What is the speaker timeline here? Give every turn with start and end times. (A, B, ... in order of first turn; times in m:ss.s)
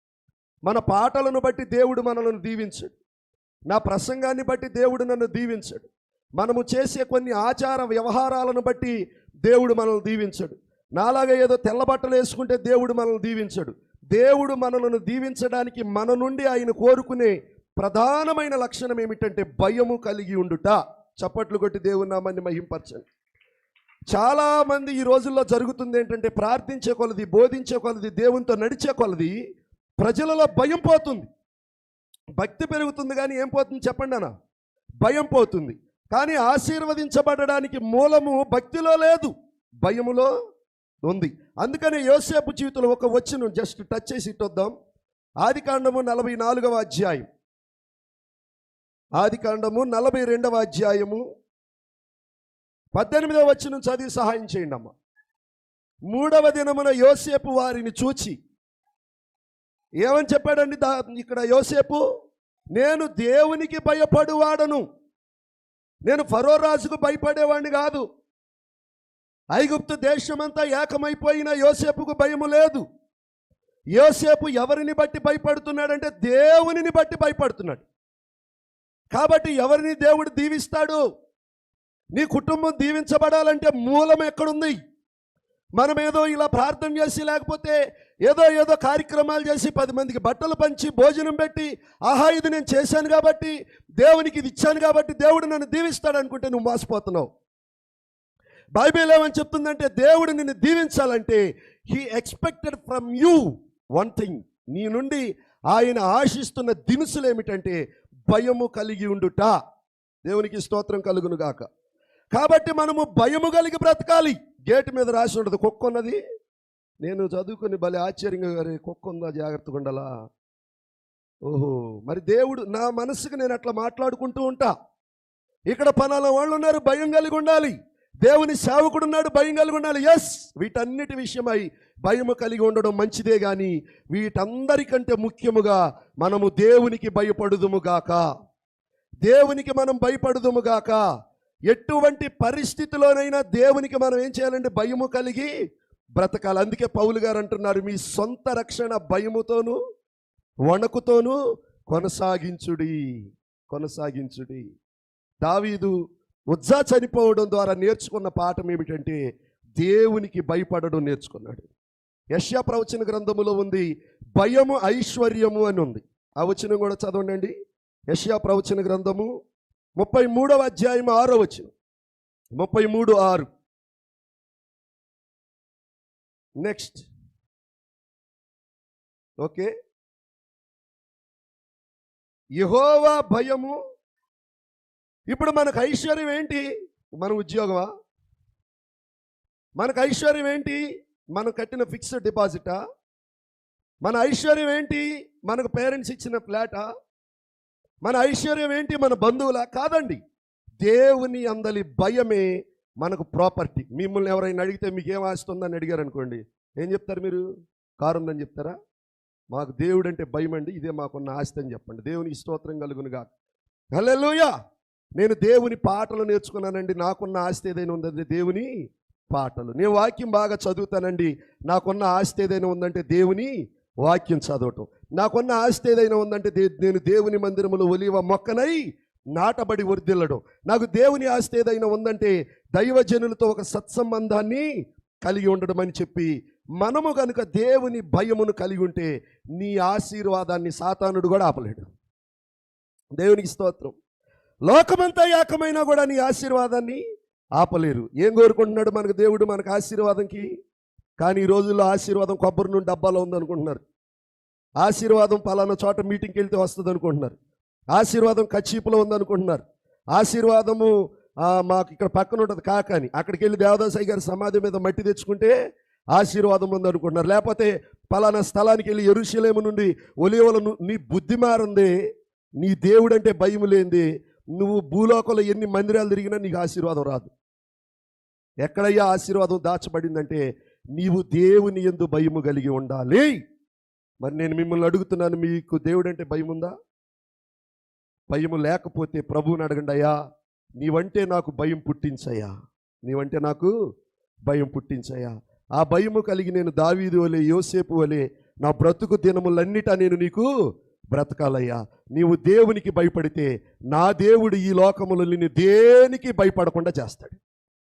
0:00.6-0:03.0 A
0:03.7-0:08.9 A
0:09.5-0:23.0 A
0:24.1-0:29.4 A
0:30.0-0:31.3 A
0:32.4-0:34.3 A
0:35.0-0:39.3 A
0:39.8-0:40.3 A
0:41.0-0:44.7 A
0:45.4-0:47.3 A
0:49.2-0:51.2 A
0:52.9-0:54.9 A
0:56.1-0:58.4 A
1:00.0-1:02.0 A
1:02.8-1:04.8 A
1:06.0-1:08.0 A
1:09.5-1:12.8 A
1:14.0-1:17.8 A
1:19.1-1:21.0 A
1:22.1-1:24.8 A
1:25.8-1:37.3 A
1:38.7-1:43.4 A
1:44.0-1:49.5 A
1:50.2-1:51.6 A
1:52.3-1:56.2 A
1:57.0-2:00.1 A
2:01.5-2:04.7 A
2:05.7-2:18.2 A
2:19.2-2:21.0 A
2:21.7-2:25.5 A
2:26.2-2:29.8 A
2:30.7-2:31.4 A
2:31.9-2:33.0 A
2:33.7-2:34.6 A
2:35.4-2:35.9 A
2:36.5-2:39.2 A
2:39.8-2:41.7 A
2:42.4-2:47.5 A
2:48.1-2:49.3 A
2:50.0-2:51.7 A
2:52.6-2:53.5 A
2:56.6-2:57.1 A
2:59.4-2:59.7 A
3:02.6-3:03.7 A
3:05.3-3:06.6 A
3:07.2-3:07.9 A
3:09.8-3:10.8 A
3:11.3-3:12.8 A
3:14.0-3:16.8 A
3:18.0-3:20.2 A
3:20.8-3:22.4 A
3:23.0-3:27.4 A
3:28.0-3:28.7 A
3:29.5-3:33.3 A
3:34.0-3:34.5 A
3:35.2-3:38.7 A
3:39.3-3:43.5 A
3:44.0-3:48.8 A
3:49.3-3:54.6 A
3:55.2-4:01.8 A
4:03.2-4:03.9 A
4:04.6-4:07.0 A
4:07.6-4:10.5 A
4:11.2-4:13.8 A
4:14.8-4:17.4 A
4:17.9-4:19.6 A
4:20.1-4:20.9 A
4:21.4-4:25.5 A
4:26.1-4:31.9 A
4:32.6-4:34.0 A
4:34.6-4:37.3 A
4:38.6-4:40.4 A
4:41.0-4:43.3 A
4:44.2-4:46.7 A
4:48.3-4:50.1 A
4:50.8-4:52.5 A
4:53.0-4:53.7 A
4:54.5-5:00.5 A
5:01.1-5:07.4 A